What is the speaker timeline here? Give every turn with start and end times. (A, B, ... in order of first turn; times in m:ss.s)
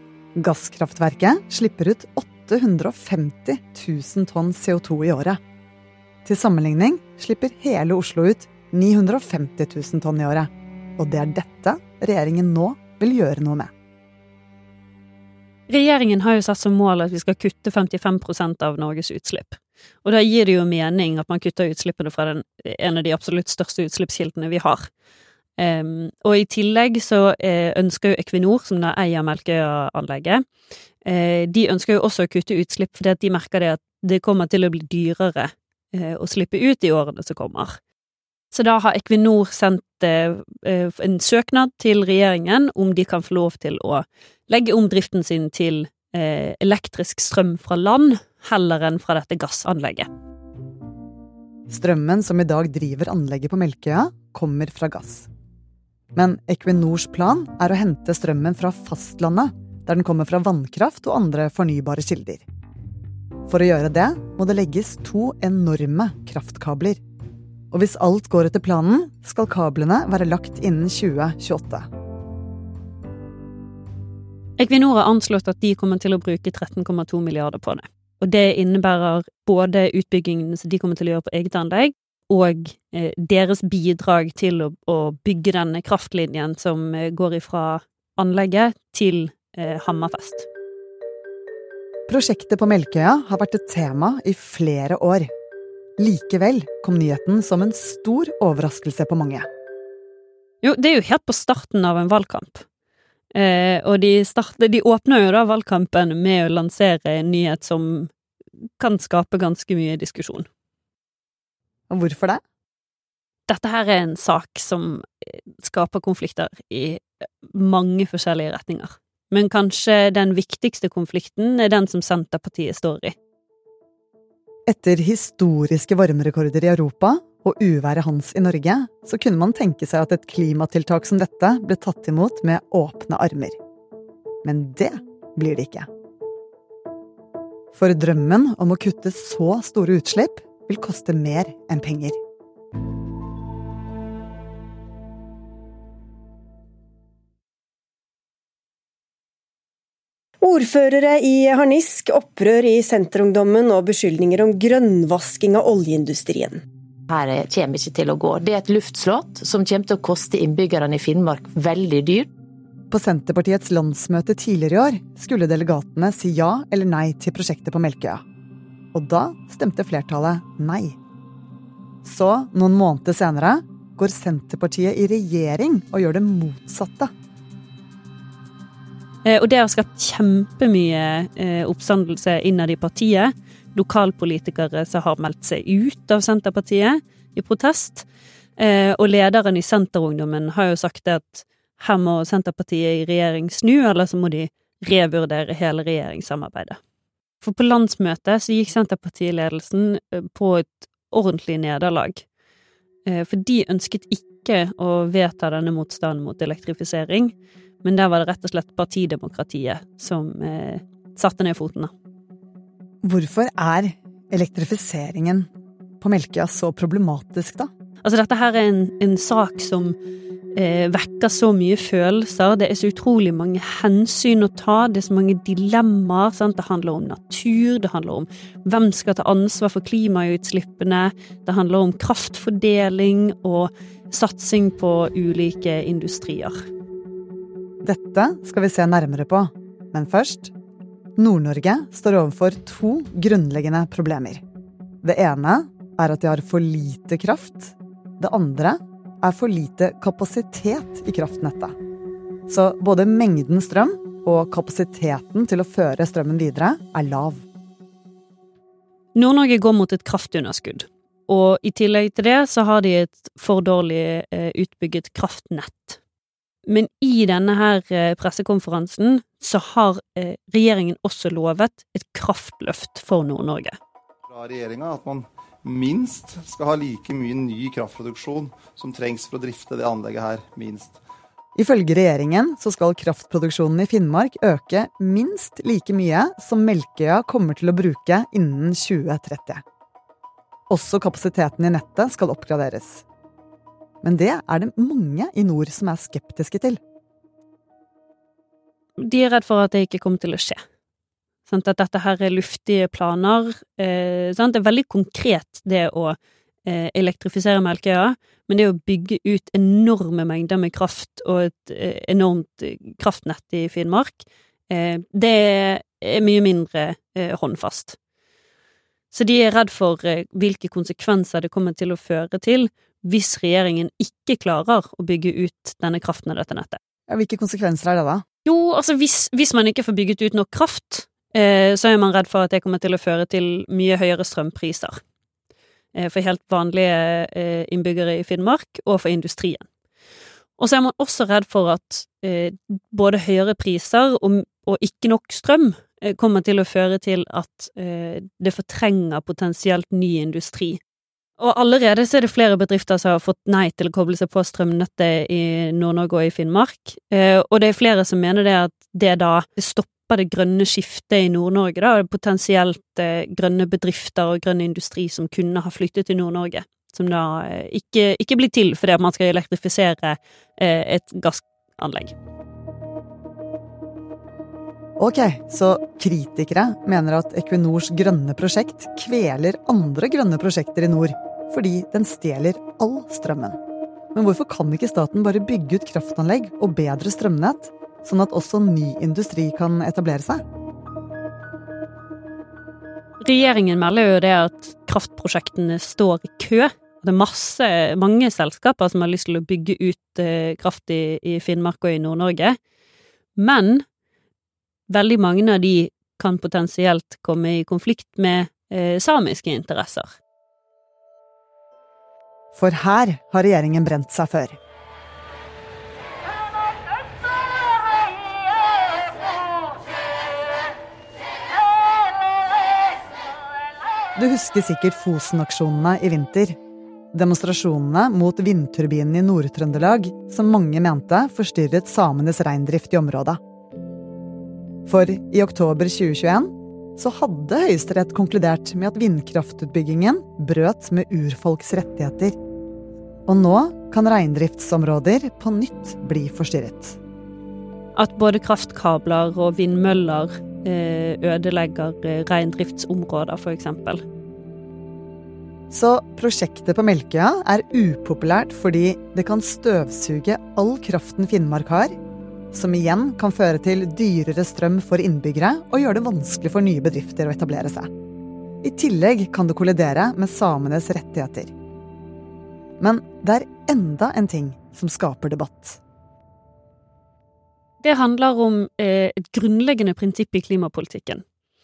0:00.4-0:05.4 A
0:06.2-0:13.7 A
0:15.7-0:24.9 B
0:25.6-0:30.4 B
0:31.0-0:37.8 B
0:38.5-0:50.1 B
0:51.7-0:55.3 A
0:56.1-1:02.4 A
1:03.5-1:07.0 A
1:07.7-1:11.9 A
1:14.6-1:30.5 B
1:32.1-1:35.3 A
1:36.0-1:39.4 A
1:40.6-1:42.6 B
1:43.3-1:48.1 B
1:48.8-1:50.4 B
1:51.9-1:52.4 A
1:53.5-2:03.1 B
2:04.7-2:13.6 A
2:14.4-2:15.9 A
2:17.7-2:22.2 A
2:30.4-2:36.6 C
2:37.1-2:42.3 D
2:42.9-2:48.2 A
2:48.9-2:51.0 A
2:52.0-2:57.1 A
2:59.2-3:08.0 B
3:08.6-3:16.8 B
3:17.4-3:22.2 B
3:23.0-3:31.9 B
3:33.0-3:35.5 A
3:36.0-3:37.7 A
3:38.0-3:40.0 B
3:40.5-3:56.6 B
3:57.8-4:00.5 A
4:01.2-4:04.4 A
4:05.0-4:11.7 A
4:12.5-4:17.4 A
4:19.1-4:26.0 B
4:26.7-4:33.7 B
4:34.3-4:41.0 E
4:41.6-4:49.6 A
4:50.7-4:53.0 A
4:54.0-4:56.8 A
4:59.0-5:00.6 B
5:01.5-5:18.0 B
5:19.1-5:26.8 B
5:27.1-5:28.2 A
5:28.4-5:35.0 B
5:35.9-5:39.6 B
5:40.6-5:50.8 B
5:51.4-6:12.1 B
6:15.0-6:23.6 A
6:24.1-6:30.4 A
6:33.2-6:42.6 B
6:43.4-6:43.8 B
6:44.9-6:50.1 B
6:52.5-6:54.6 A
7:04.2-7:06.6 A
7:07.1-7:13.4 A
7:14.8-7:22.4 A
7:23.3-7:27.0 A
7:28.0-7:34.0 B
7:35.7-7:42.0 A
7:42.5-7:47.9 A
7:48.6-7:51.5 A
7:52.8-7:55.8 A
7:57.8-8:01.2 B